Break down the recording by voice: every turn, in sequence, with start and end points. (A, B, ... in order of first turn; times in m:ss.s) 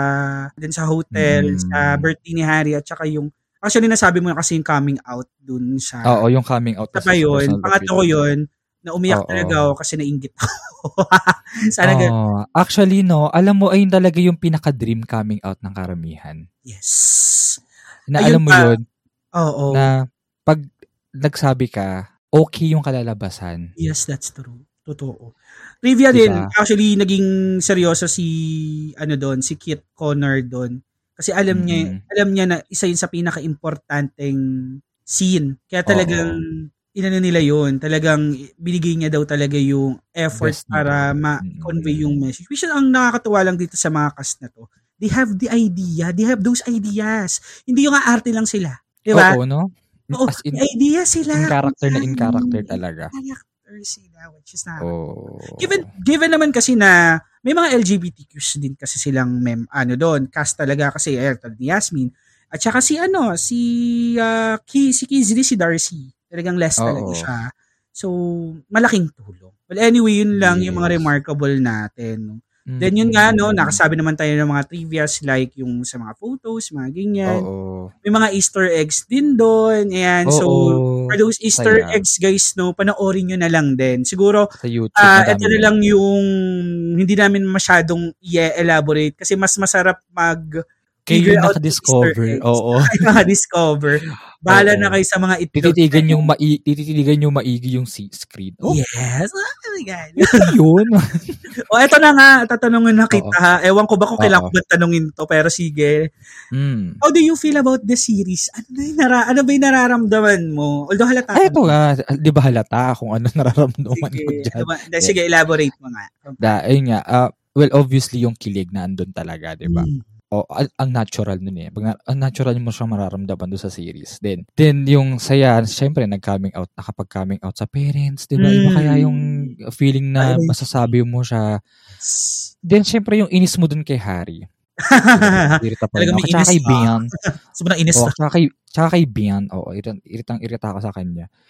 0:00.6-0:06.2 A
0:01.1-0:02.1 B
0:06.1-0:08.2 B
0:06.9-0:12.1 A
0:09.1-0:09.6 B
0:11.8-0:16.4 B
0:16.6-0:17.6 A
0:18.1-0:18.8 B
0:18.2-0:18.7 A
0:19.4-0:19.9 A
0:21.2-0:23.7 B
0:23.8-0:34.4 A
0:26.1-0:26.5 B
0:31.5-0:32.0 B
0:35.1-0:36.4 A
0:35.9-0:36.4 B
0:36.9-0:49.4 A
0:40.4-0:42.2 B
0:49.1-0:50.6 B
0:50.1-0:54.9 A
0:51.3-0:53.1 B
0:54.8-0:55.8 B
0:55.6-1:03.6 A
1:04.2-1:07.4 A
1:06.8-1:07.2 B
1:08.7-1:17.4 A
1:10.4-1:11.0 B
1:12.7-1:13.8 B
1:17.3-1:17.9 B
1:18.0-1:24.4 A
1:20.3-1:22.0 B
1:24.6-1:25.7 B
1:25.0-1:26.2 A
1:27.0-1:30.4 A
1:31.1-1:33.1 B
1:31.1-1:36.3 A
1:34.5-1:35.0 B
1:35.5-1:38.8 B
1:38.6-1:40.3 A
1:40.2-1:41.3 B
1:41.7-1:46.0 A
1:44.2-1:44.5 B
1:46.5-1:47.0 B
1:47.0-1:51.7 A
1:51.4-1:55.1 B
1:53.9-1:56.6 A
1:56.4-2:11.5 B
1:59.6-2:00.1 A
2:08.4-2:09.5 A
2:10.2-2:10.6 A
2:12.0-2:12.5 A
2:12.7-2:14.4 B
2:14.9-2:17.0 A
2:15.2-2:17.1 B
2:17.5-2:18.1 A
2:18.0-2:21.3 B